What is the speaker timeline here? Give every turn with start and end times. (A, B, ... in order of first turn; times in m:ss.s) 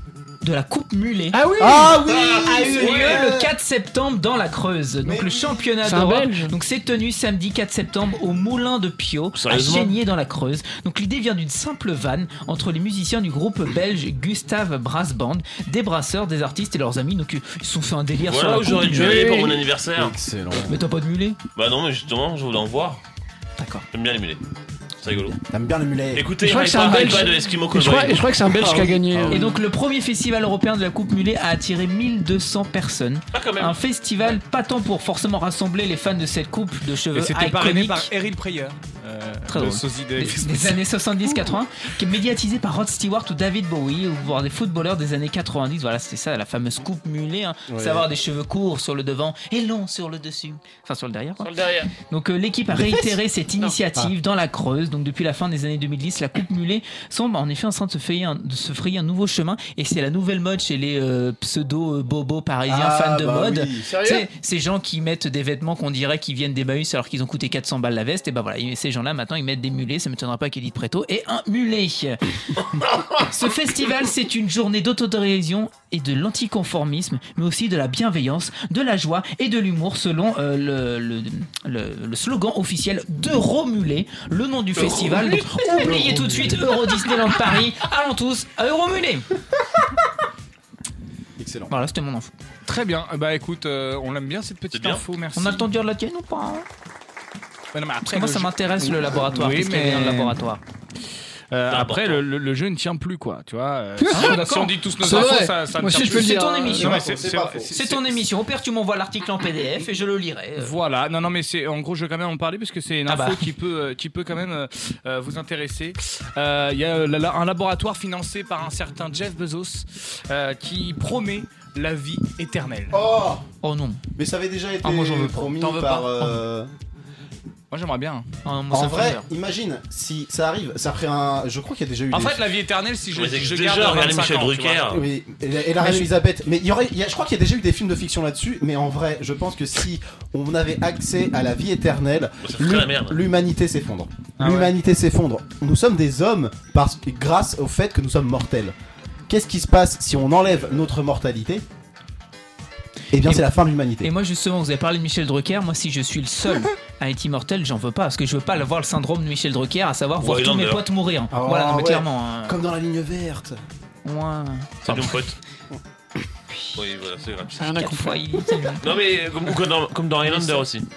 0:00.4-0:19.4 A
0:01.3-0:02.0 B
0:01.6-0:03.5 C
0:02.8-0:03.3 D
0:05.0-0:05.7 C
0:05.8-0:06.5 B
0:09.4-0:09.9 E
0:18.3-0:20.2 E
0:18.8-0:19.6 B
0:19.9-0:20.8 C
0:20.6-0:21.4 A
0:21.6-0:23.0 E
0:23.6-0:23.8 A
0:23.9-0:24.4 E
0:25.0-0:25.4 E
0:25.4-0:26.4 C
0:26.2-0:28.3 E
0:26.4-0:29.5 B
0:28.5-0:29.3 C
0:29.3-0:38.1 A
0:33.3-0:33.8 E
0:37.1-0:40.8 D
0:39.5-1:12.2 A
0:47.7-0:48.1 C
0:51.4-0:51.9 E
0:52.7-0:53.2 C
1:02.7-1:03.9 C
1:03.9-1:04.3 B
1:13.2-1:29.3 A
1:25.7-1:26.7 C
1:31.4-1:31.7 C
1:31.7-1:32.3 A
1:32.7-1:35.7 D
1:34.7-1:35.0 E
1:35.4-1:36.7 A
1:37.7-1:40.4 D
1:38.1-1:40.6 A
1:41.5-1:47.8 D
1:41.7-1:42.2 E
1:44.0-1:44.4 B
1:44.1-1:44.8 A
1:45.0-1:47.0 B
1:46.0-1:47.0 A
1:46.8-1:48.0 C
1:47.7-1:50.8 A
1:50.6-2:03.1 D
1:53.1-1:53.5 A
2:02.9-2:03.4 C
2:03.6-2:04.0 A
2:04.2-2:06.7 C
2:04.8-2:05.5 A
2:04.9-2:06.1 D
2:07.7-2:08.3 D
2:08.4-2:09.3 A
2:08.7-2:12.4 C
2:12.1-2:14.9 D
2:13.1-2:15.1 E
2:14.9-2:28.7 C
2:15.8-2:16.1 A
2:22.4-2:23.2 E
2:24.4-2:24.7 D
2:29.3-2:31.6 C
2:33.1-2:34.1 C
2:34.0-2:42.6 A
2:40.2-2:40.8 E
2:41.3-2:43.6 C
2:44.0-2:45.2 A
2:44.8-2:45.4 E
2:46.8-2:47.6 E
2:47.5-2:48.8 B
2:47.7-2:48.8 A
2:48.8-2:50.8 E
2:50.3-2:50.6 D